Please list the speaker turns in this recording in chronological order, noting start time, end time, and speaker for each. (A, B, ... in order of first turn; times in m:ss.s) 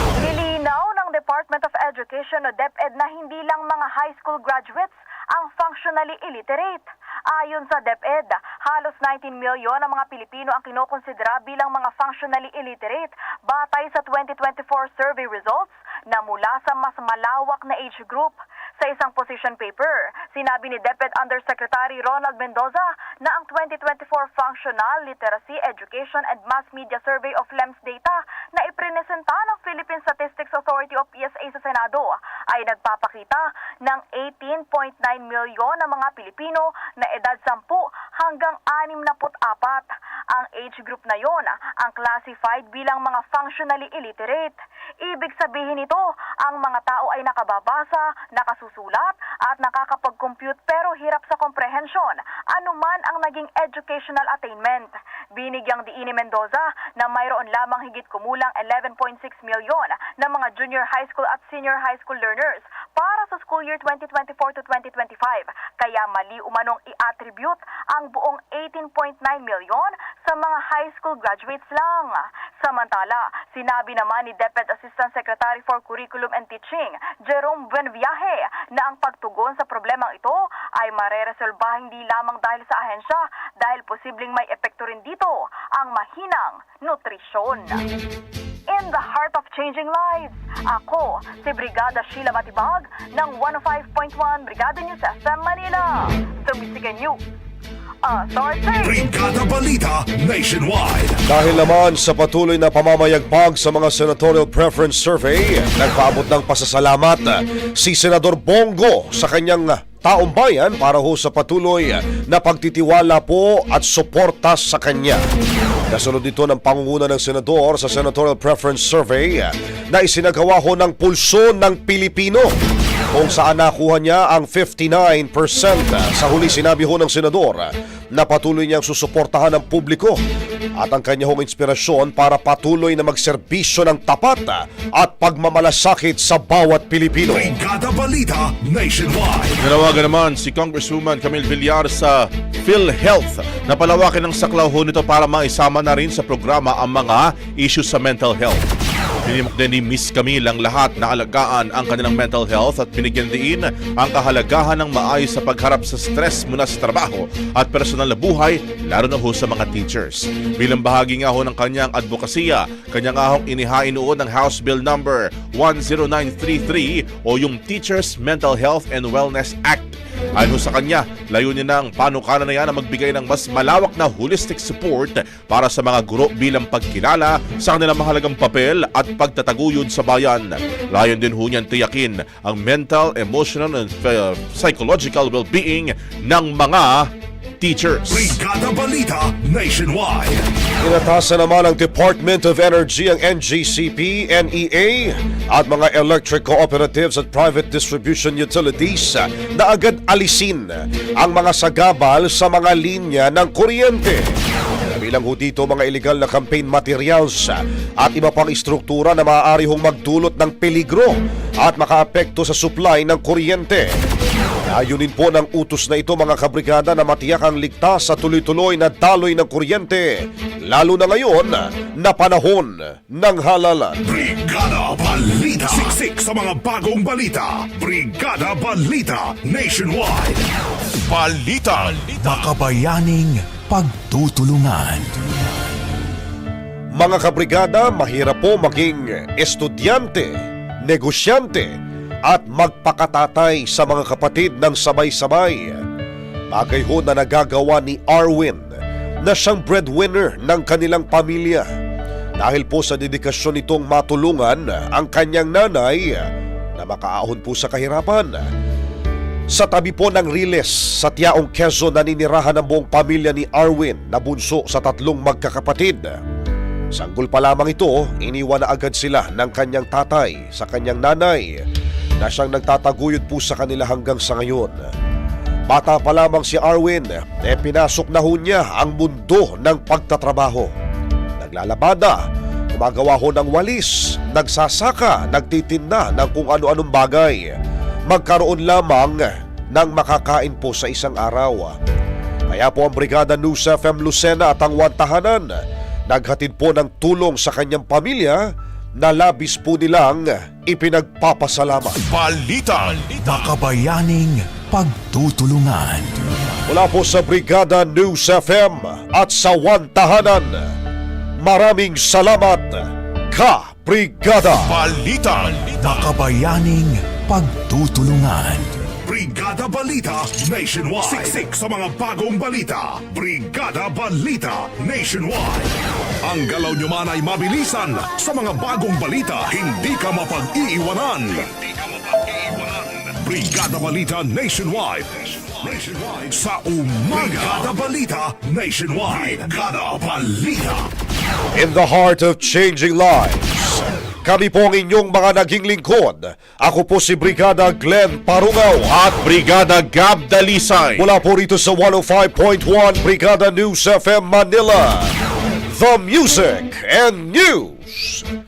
0:00.2-1:27.8 A
1:28.7-1:37.2 A
1:38.0-1:39.0 A
1:38.8-1:41.2 B
1:41.3-1:55.2 C
1:55.9-2:02.5 C
2:03.1-2:10.2 C
2:10.8-2:17.6 C
2:17.3-2:19.6 B
2:19.6-2:28.6 D
2:29.3-3:07.1 D
3:07.6-3:08.4 D
3:08.1-3:10.4 B
3:10.8-3:24.3 C
3:24.9-3:33.9 C
3:34.7-3:44.0 C
3:44.0-3:50.4 B
3:51.0-3:55.2 E
3:57.0-4:00.3 C
4:00.9-4:01.7 C
4:02.3-4:05.8 C
4:06.5-4:08.7 C
4:09.2-4:11.7 C
4:12.4-4:16.3 C
4:16.8-4:18.4 C
4:19.5-4:26.2 C
4:26.9-4:31.6 C
4:32.2-4:34.9 C
4:35.7-4:40.7 C
4:41.4-4:47.5 C
4:48.1-4:51.8 C
4:52.5-5:02.0 C
5:02.1-5:06.2 E
5:06.7-5:10.7 C
5:11.4-5:14.7 C
5:14.6-5:18.8 E
5:19.0-5:31.5 B
5:33.2-5:40.9 B
5:41.6-5:48.9 C
5:48.9-5:51.0 D
5:51.0-5:55.1 C
5:55.7-5:58.2 C